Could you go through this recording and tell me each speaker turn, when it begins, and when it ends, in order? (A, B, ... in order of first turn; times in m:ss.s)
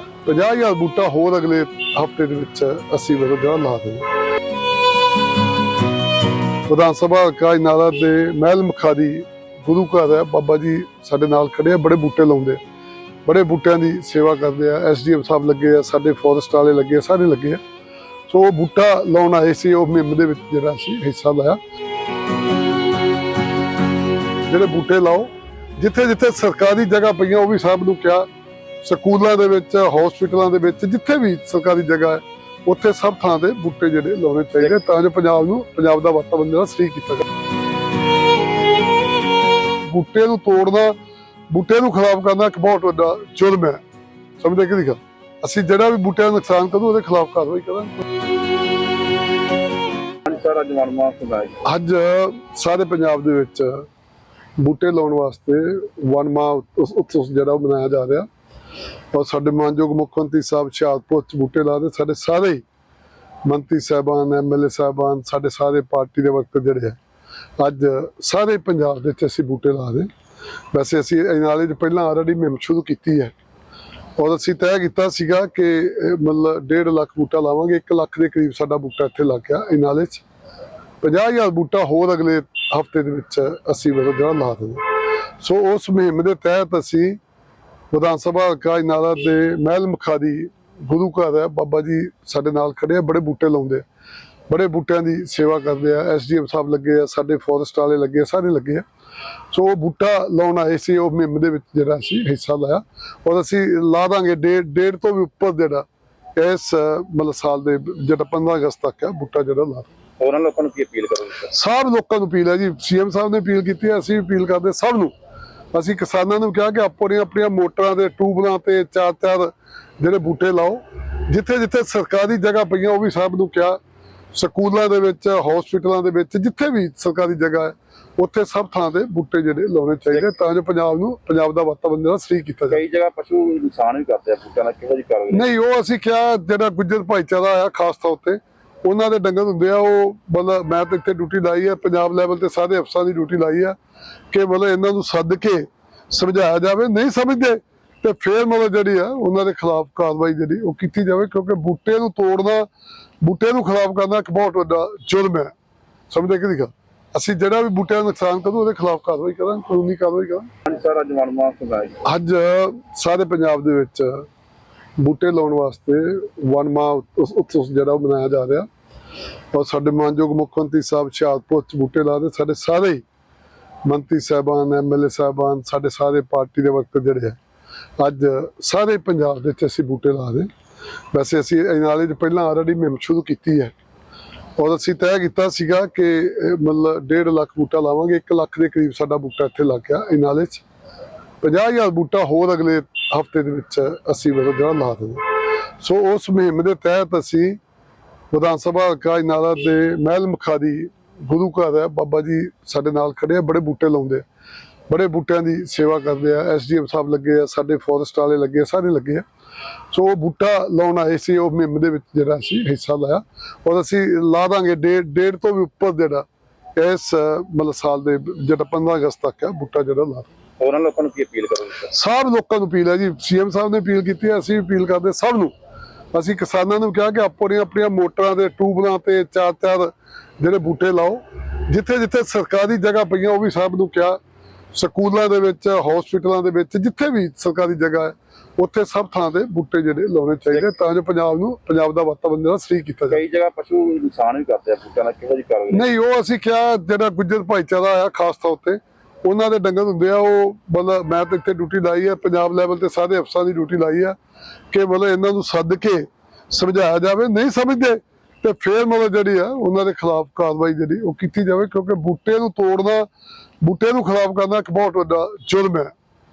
0:00.2-0:04.1 A
0:06.7-0:12.6 A
0:13.3-0:17.6 A
0:18.3-0:21.6 A
0:24.5-0:28.3 A
0:28.8-0:37.3 A
0:39.8-0:41.0 A
0:41.5-0:43.8 A
0:44.4-0:48.0 A
0:50.2-0:51.6 B
0:51.6-0:53.9 A
0:54.6-0:58.3 A
0:59.1-1:02.6 A
1:03.4-1:07.0 A
1:07.6-1:10.1 A
1:10.7-1:13.3 A
1:14.2-1:20.2 A
1:21.0-1:24.8 A
1:25.4-1:27.2 A
1:27.9-1:33.8 A
1:34.5-1:38.8 A
1:39.5-1:45.9 A
1:46.4-1:49.9 A
1:50.2-1:51.5 B
1:51.5-1:55.1 A
1:55.7-2:03.8 A
2:04.3-2:12.8 A
2:12.7-2:15.5 B
2:15.3-2:23.8 A
2:24.3-2:32.7 A
2:33.2-2:35.5 A
2:36.1-2:40.5 A
2:40.7-2:42.0 B
2:42.0-2:44.3 A
2:45.0-2:48.7 A
2:49.5-2:53.0 A
2:53.8-2:57.4 A
2:58.0-3:00.5 A
3:01.1-3:03.7 A
3:04.6-3:10.6 A
3:11.4-3:15.2 A
3:15.8-3:17.6 A
3:18.3-3:24.2 A
3:24.9-3:29.2 A
3:29.9-3:36.2 A
3:36.8-3:40.3 A
3:40.6-3:41.9 B
3:41.9-3:45.5 A
3:46.1-3:54.2 A
3:54.7-4:03.2 A
4:03.1-4:05.9 B
4:05.7-4:14.2 A
4:14.7-4:23.1 A
4:23.6-4:25.9 A